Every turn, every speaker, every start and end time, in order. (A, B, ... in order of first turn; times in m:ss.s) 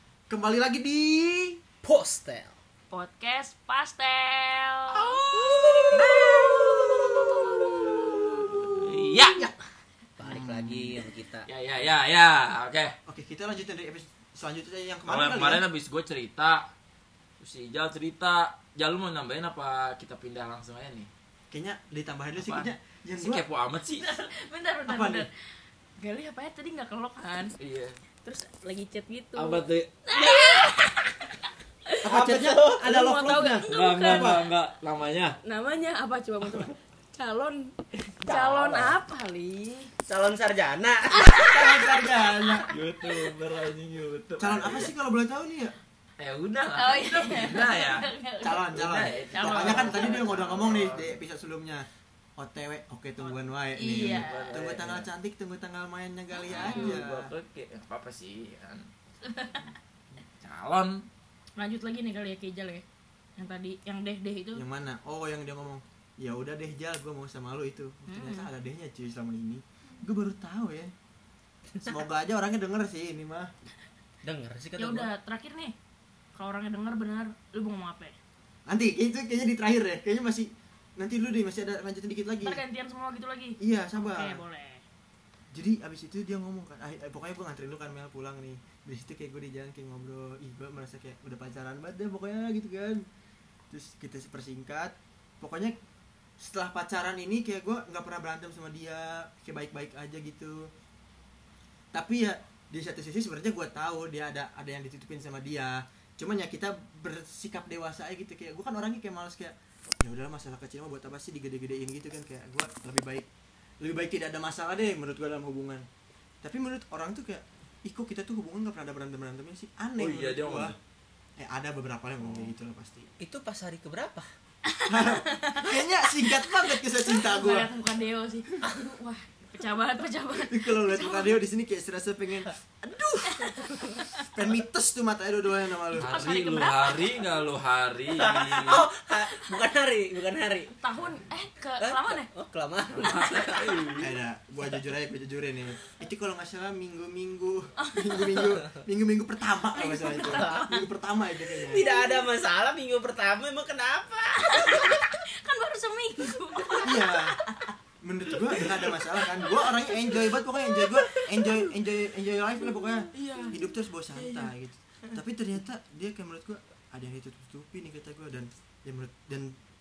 0:00.3-0:01.6 A
0:01.8-0:02.5 B
0:02.9-0:05.2 C
0:04.9-0:09.5 D
0:10.2-0:11.5 B
0:10.2-0:11.0 A
0:11.4-0:12.9 D
0:13.1-0:15.6 A
0:15.0-0:16.7 D
0:17.4-0:21.1 D
0:21.5-0:23.4 A
0:22.3-0:24.1 D
0:24.0-0:25.3 C
0:24.8-0:25.3 A
0:26.0-0:27.5 C
0:27.6-0:28.0 D
0:28.2-0:30.8 C
0:29.3-0:30.0 D
0:30.4-0:30.8 B
0:32.0-0:32.9 A
0:32.0-0:33.8 B
0:32.8-0:34.6 C
0:33.6-0:35.4 D
0:34.0-0:34.3 A
0:35.4-0:39.9 C
0:38.2-0:39.0 B
0:40.0-0:42.0 B
0:41.2-0:42.7 A
0:42.7-0:45.0 D
0:43.0-0:43.3 C
0:44.4-0:45.8 A
0:46.2-0:51.2 D
0:46.6-0:50.2 C
0:48.4-0:57.3 A
0:53.7-0:54.6 C
0:54.0-0:55.1 D
0:56.4-0:57.0 C
0:56.5-0:58.9 D
0:59.2-0:59.7 C
1:00.4-1:01.1 D
1:01.6-1:02.8 C
1:03.4-1:04.6 C
1:04.5-1:10.9 A
1:08.1-1:08.5 C
1:11.8-1:13.5 A
1:14.2-1:15.1 B
1:14.8-1:15.7 C
1:16.3-1:18.2 C
1:18.6-1:22.6 A
1:22.4-1:24.8 C
1:23.6-1:24.4 A
1:25.5-1:33.0 A
1:33.7-1:35.8 A
1:36.4-1:40.7 A
1:41.9-1:53.3 A
1:53.8-1:55.8 A
1:56.4-2:00.8 A
2:00.0-2:00.8 D
2:01.4-2:03.1 A
2:03.2-2:04.3 B
2:04.8-2:05.7 C
2:04.8-2:07.7 A
2:06.5-2:11.4 C
2:10.4-2:13.5 A
2:13.4-2:14.0 B
2:13.8-2:14.2 C
2:14.3-2:16.4 A
2:15.9-2:17.3 C
2:15.9-2:18.9 D
2:18.1-2:20.7 B
2:20.8-2:22.3 C
2:21.8-2:24.0 B
2:22.9-2:24.1 D
2:24.0-2:31.9 A
2:27.8-2:28.6 C
2:29.7-2:30.8 C
2:30.2-2:30.7 B
2:31.5-2:35.1 B
2:31.8-2:32.3 C
2:34.4-2:37.6 C
2:36.8-2:37.4 A
2:38.0-2:49.6 A
2:41.3-2:41.6 B
2:43.1-2:44.5 C